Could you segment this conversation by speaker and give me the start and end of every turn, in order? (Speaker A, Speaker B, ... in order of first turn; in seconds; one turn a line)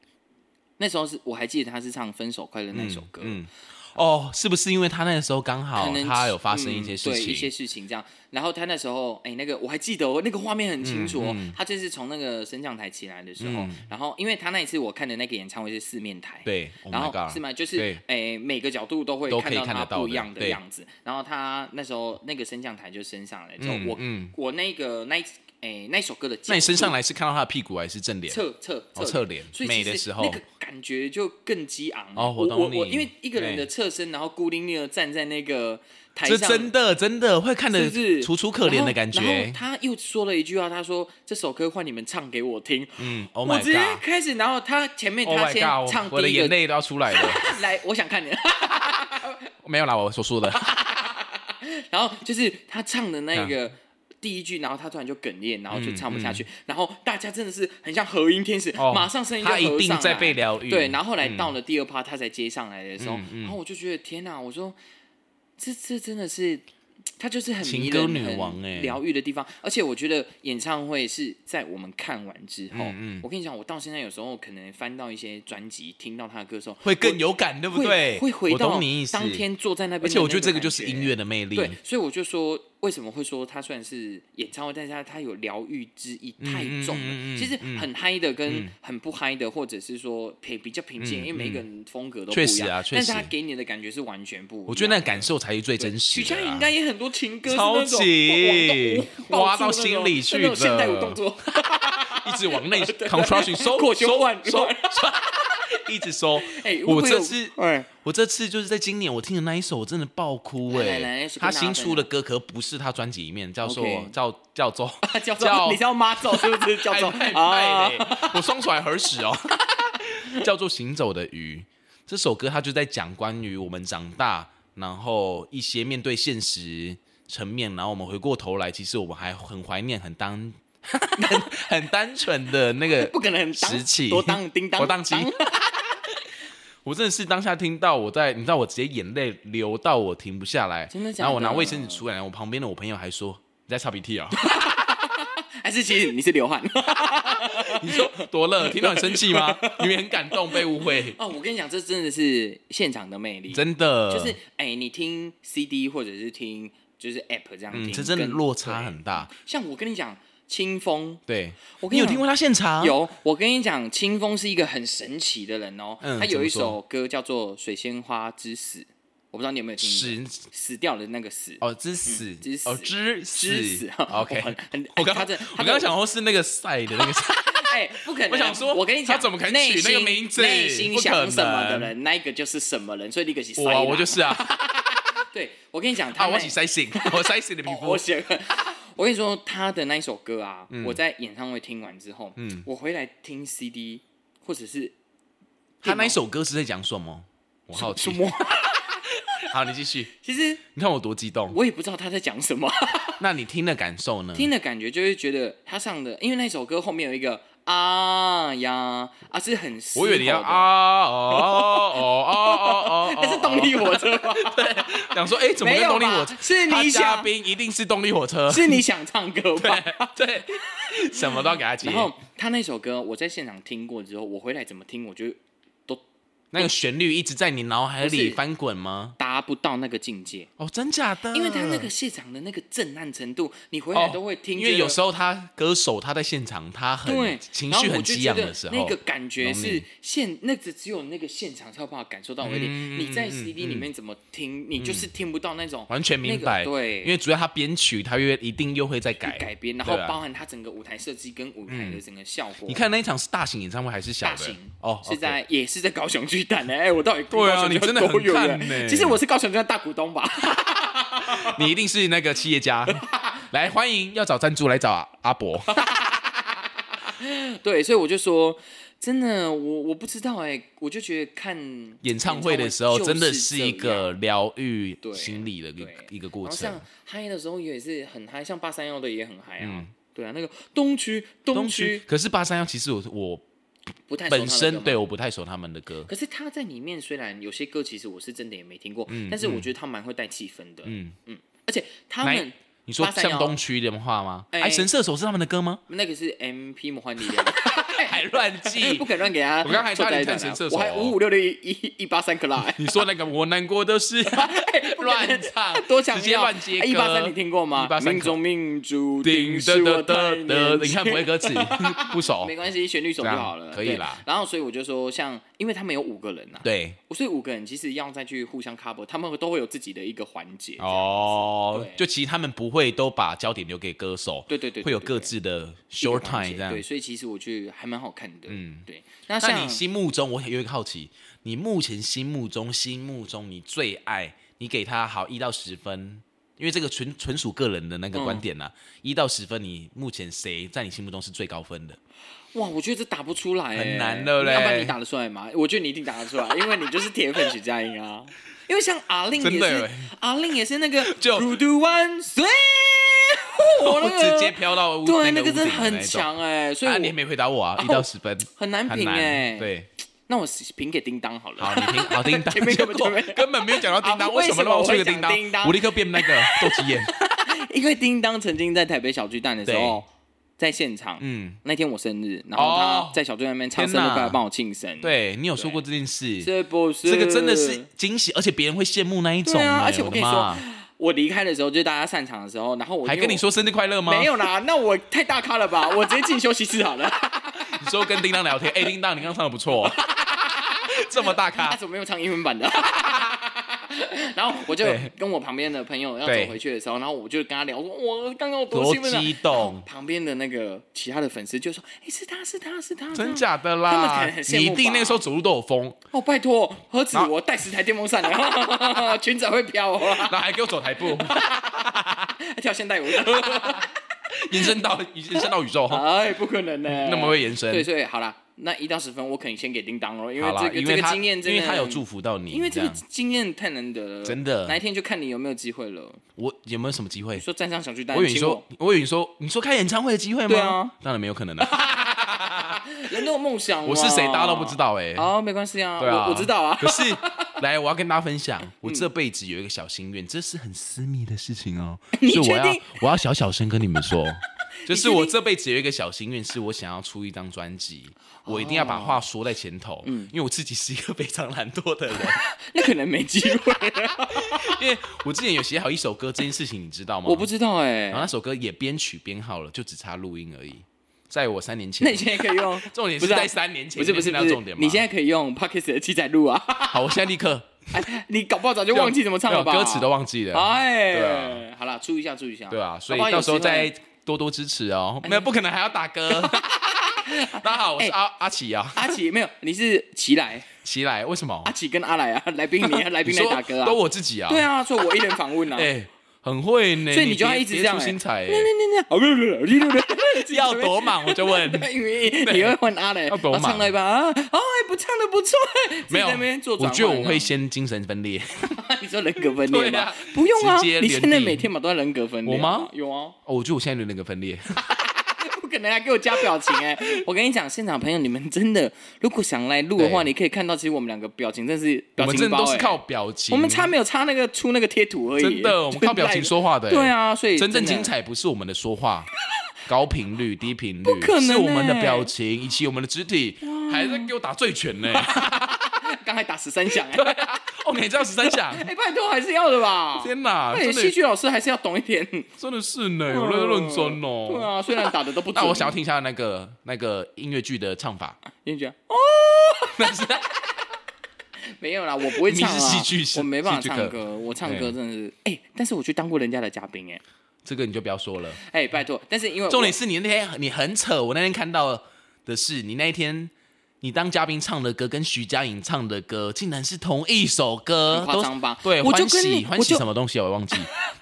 Speaker A: 0.8-3.4
Speaker B: 2.7-7.5
Speaker A: 5.7-26.9
Speaker B: 10.8-11.6
Speaker B: 13.4-13.8
Speaker B: 16.4-18.0
Speaker B: 19.3-20.6
Speaker B: 23.6-24.3
Speaker B: 26.5-28.4
Speaker A: 28.3-36.7
Speaker B: 28.9-30.4
Speaker B: 32.1-33.7
Speaker B: 36.2-39.6
Speaker A: 37.7-46.6
Speaker B: 43.0-44.0
Speaker B: 45.2-47.6
Speaker A: 47.1-49.5
Speaker B: 49.6-50.6
Speaker A: 50.5-64.8
Speaker B: 55.7-56.4
Speaker B: 58.8-61.5
Speaker B: 63.0-63.5
Speaker A: 65.6-66.6
Speaker A: 67.2-95.3
Speaker B: 67.6-69.0
Speaker B: 72.7-73.2
Speaker B: 76.8-79.4
Speaker B: 80.0-81.8
Speaker B: 86.4-87.9
Speaker B: 88.5-88.7
Speaker B: 91.0-91.6
Speaker B: 92.3-93.3
Speaker B: 94.7-96.7
Speaker A: 95.8-105.0
Speaker B: 97.4-101.2
Speaker B: 102.0-135.3
Speaker A: 106.4-107.9
Speaker A: 110.7-112.1
Speaker A: 113.6-114.1
Speaker A: 115.0-118.4
Speaker A: 131.2-131.5
Speaker A: 132.9-136.1
Speaker B: 136.8-144.4
Speaker A: 140.9-142.0
Speaker A: 144.4-161.2
Speaker B: 147.4-151.2
Speaker B: 153.5-154.4
Speaker B: 157.7-159.3
Speaker B: 161.3-163.0
Speaker A: 161.8-162.2
Speaker A: 162.8-175.9
Speaker B: 166.0-166.8
Speaker B: 169.8-170.5
Speaker B: 171.6-181.9
Speaker A: 177.0-194.9
Speaker B: 183.6-184.6
Speaker B: 186.1-188.0
Speaker B: 190.7-191.0
Speaker B: 192.4-192.7
Speaker A: 195.8-196.2
Speaker B: 195.8-198.3
Speaker A: 197.7-199.2
Speaker B: 199.3-200.1
Speaker A: 200.1-200.6
Speaker B: 200.7-201.6
Speaker A: 201.5-203.2
Speaker B: 203.2-204.5
Speaker A: 204.3-210.7
Speaker B: 209.9-218.8
Speaker A: 211.3-217.3
Speaker A: 218.5-226.0
Speaker B: 219.6-222.1
Speaker B: 226.5-229.2
Speaker A: 228.0-228.4
Speaker A: 229.2-230.5
Speaker B: 230.6-231.9
Speaker A: 231.3-235.0
Speaker B: 233.9-239.8
Speaker A: 237.0-247.1
Speaker B: 242.4-243.9
Speaker B: 244.8-245.1
Speaker B: 245.9-250.2
Speaker A: 249.2-252.8
Speaker B: 251.7-252.0
Speaker B: 252.7-255.4
Speaker A: 254.2-261.7
Speaker B: 257.3-259.2
Speaker B: 261.2-265.7
Speaker A: 262.9-263.4
Speaker A: 265.7-274.2
Speaker B: 272.0-276.8
Speaker A: 275.0-282.0
Speaker B: 279.6-279.9
Speaker B: 281.5-283.4
Speaker A: 284.1-285.0
Speaker B: 284.3-286.1
Speaker A: 286.1-293.6
Speaker B: 289.1-289.7
Speaker B: 290.8-291.1
Speaker B: 292.2-295.8
Speaker A: 294.5-294.9
Speaker A: 295.9-302.9
Speaker B: 297.3-299.1
Speaker B: 299.6-301.2
Speaker B: 302.6-308.4
Speaker A: 304.2-322.0
Speaker B: 309.2-312.5
Speaker B: 313.2-314.2
Speaker B: 316.6-317.0
Speaker B: 320.8-326.8
Speaker A: 324.5-325.3
Speaker A: 326.0-329.8
Speaker B: 328.5-328.9
Speaker B: 329.4-342.0
Speaker A: 338.1-338.4
Speaker A: 342.5-357.1
Speaker B: 343.7-344.9
Speaker B: 349.4-350.1
Speaker B: 351.0-351.6
Speaker B: 353.8-356.3
Speaker B: 356.8-359.9
Speaker A: 357.8-359.7
Speaker A: 360.3-370.1
Speaker B: 361.6-367.1
Speaker B: 369.6-370.0
Speaker A: 370.6-375.8
Speaker B: 371.2-371.6
Speaker B: 372.6-373.2
Speaker B: 373.8-374.4
Speaker B: 375.0-376.5
Speaker A: 376.4-377.9
Speaker B: 377.0-380.6
Speaker A: 379.4-383.4
Speaker B: 383.0-384.3
Speaker A: 384.1-387.8
Speaker B: 387.7-390.0
Speaker A: 389.8-405.2
Speaker B: 390.9-391.8
Speaker B: 394.7-395.1
Speaker B: 396.2-396.6
Speaker B: 398.7-399.8
Speaker B: 403.1-406.0
Speaker A: 406.1-410.4
Speaker B: 410.0-412.3
Speaker A: 411.0-413.9
Speaker B: 413.1-416.0
Speaker A: 415.3-426.2
Speaker B: 416.9-417.9
Speaker B: 420.4-423.0
Speaker B: 424.2-424.8
Speaker B: 426.4-427.4
Speaker A: 427.4-428.6
Speaker B: 428.1-432.8
Speaker A: 430.5-430.9
Speaker A: 431.6-437.6
Speaker B: 433.8-435.3
Speaker B: 436.0-452.4
Speaker A: 438.8-439.1
Speaker A: 442.1-443.0
Speaker A: 444.9-445.3
Speaker A: 448.4-449.2
Speaker A: 450.0-450.3
Speaker A: 452.2-454.8
Speaker B: 454.3-457.5
Speaker A: 457.2-458.3
Speaker B: 458.1-465.1
Speaker A: 462.0-467.2
Speaker B: 466.9-468.1
Speaker A: 467.9-473.9
Speaker B: 468.9-471.6
Speaker B: 472.7-479.2
Speaker A: 475.2-475.5
Speaker A: 476.3-478.2
Speaker A: 478.9-480.7
Speaker B: 480.8-481.7
Speaker A: 481.6-485.9
Speaker B: 482.8-484.7
Speaker B: 485.7-488.7
Speaker A: 487.1-497.6
Speaker B: 490.4-491.9
Speaker B: 492.4-493.9
Speaker B: 496.1-498.8
Speaker A: 498.8-503.4
Speaker B: 499.5-501.7
Speaker B: 502.4-502.9
Speaker B: 503.5-504.9
Speaker A: 504.9-518.1
Speaker B: 506.3-507.2
Speaker B: 510.0-510.3
Speaker B: 512.2-513.9
Speaker B: 515.4-519.3
Speaker B: 519.9-525.9
Speaker A: 521.0-522.3
Speaker A: 523.6-524.3
Speaker A: 525.1-527.3
Speaker B: 526.9-528.9
Speaker A: 528.4-532.5
Speaker B: 530.2-531.1
Speaker B: 532.6-538.4
Speaker A: 533.3-536.0
Speaker A: 538.5-540.3
Speaker B: 539.9-540.6
Speaker A: 541.7-547.2
Speaker B: 542.3-544.9
Speaker B: 547.6-548.6
Speaker A: 548.5-550.0
Speaker B: 549.7-560.9
Speaker A: 558.1-560.0
Speaker A: 560.7-561.1